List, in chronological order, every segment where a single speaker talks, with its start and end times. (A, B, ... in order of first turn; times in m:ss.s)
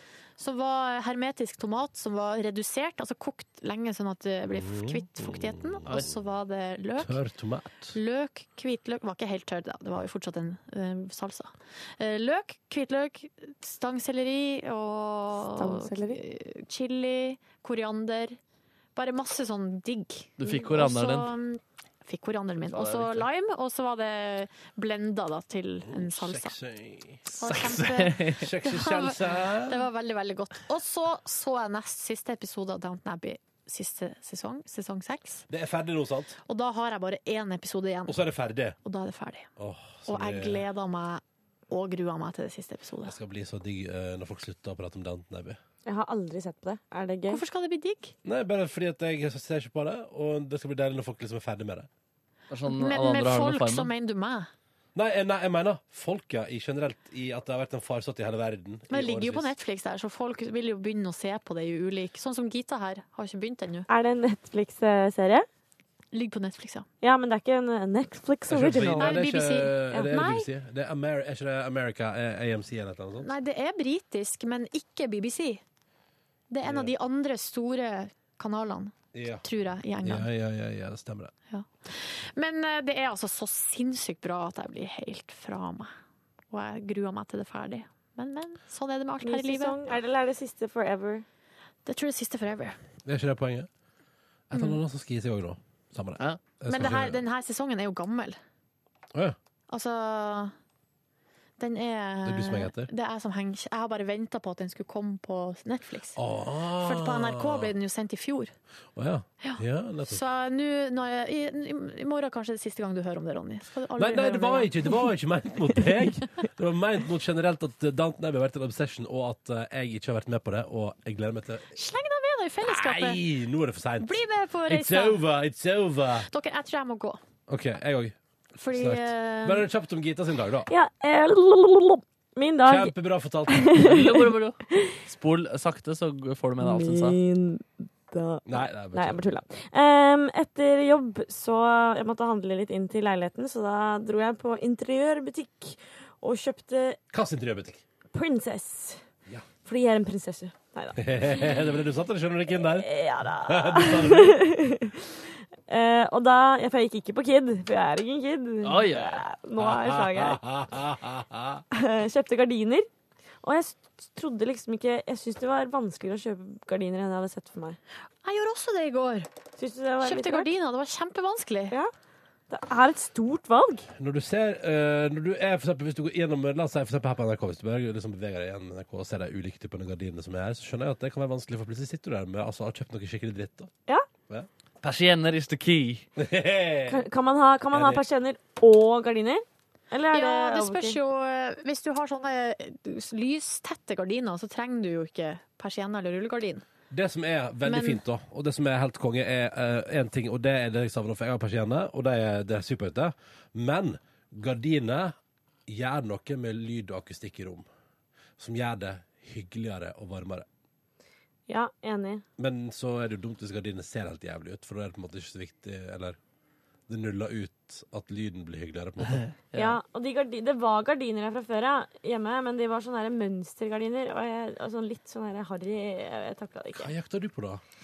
0:00.4-0:07.2 A
0:04.5-0:06.1 B
0:07.0-0:08.0 B
0:07.9-0:18.4 A
0:15.6-0:16.2 C
0:18.9-0:26.6 A
0:20.4-0:21.3 D
0:22.7-0:23.2 D
0:25.8-0:27.2 B
0:27.3-0:28.5 D
0:27.4-0:35.4 A
0:28.4-0:29.8 B
0:35.5-0:36.4 B
0:36.5-0:38.2 A
0:38.1-0:38.8 B
0:38.8-0:39.5 A
0:39.6-0:40.6 B
0:40.1-0:43.1 A
0:43.0-0:45.6 B
0:45.8-0:47.4 C
0:47.3-0:48.1 A
0:48.2-0:51.9 B
0:52.5-0:53.9 D
0:52.7-0:54.5 A
0:54.9-0:59.5 B
0:58.9-1:03.9 A
1:03.9-1:05.4 C
1:06.1-1:06.9 A
1:07.0-1:09.2 C
1:08.5-1:13.3 B
1:09.0-1:10.5 A
1:13.2-1:15.6 A
1:16.5-1:20.3 A
1:16.6-1:16.9 B
1:19.1-1:19.4 B
1:20.0-1:21.3 B
1:21.5-1:25.9 A
1:26.5-1:30.0 A
1:29.2-1:31.2 C
1:31.8-1:32.8 A
1:33.0-1:33.7 B
1:34.5-1:37.2 B
1:36.7-1:38.4 A
1:39.7-1:40.5 A
1:41.6-1:46.2 A
1:42.2-1:42.9 B
1:46.2-1:47.7 B
1:46.8-1:48.5 A
1:49.0-1:50.2 B
1:49.4-1:54.8 A
1:54.0-2:01.6 B
2:01.7-2:03.2 A
2:02.6-2:06.3 B
2:04.0-2:05.2 A
2:06.3-2:07.2 A
2:07.5-2:08.2 B
2:08.6-2:09.6 A
2:08.7-2:10.7 B
2:10.7-2:12.9 C
2:12.6-2:13.7 B
2:13.5-2:15.0 C
2:13.8-2:17.2 D
2:16.6-2:27.0 C
2:18.4-2:19.3 B
2:27.1-2:27.8 B
2:28.1-2:29.0 C
2:29.6-2:31.5 C
2:30.9-2:32.9 B
2:32.7-2:35.0 C
2:33.4-2:34.5 B
2:35.7-2:40.4 C
2:38.6-2:39.2 D
2:39.6-2:41.6 B
2:41.7-2:42.9 C
2:43.4-2:47.8 C
2:48.2-2:49.3 A
2:49.6-2:50.5 C
2:50.0-2:51.7 A
2:52.5-2:53.9 C
2:54.0-3:03.7 B
3:04.8-3:06.0 D
3:06.2-3:07.0 B
3:06.9-3:11.0 C
3:07.7-3:08.0 B
3:10.1-3:16.6 A
3:16.9-3:25.2 B
3:17.6-3:18.0 A
3:25.7-3:27.6 B
3:28.4-3:30.4 B
3:31.5-3:32.2 C
3:32.4-3:36.2 B
3:36.9-3:39.2 B
3:39.3-3:39.8 D
3:39.5-3:46.9 C
3:46.7-3:47.6 B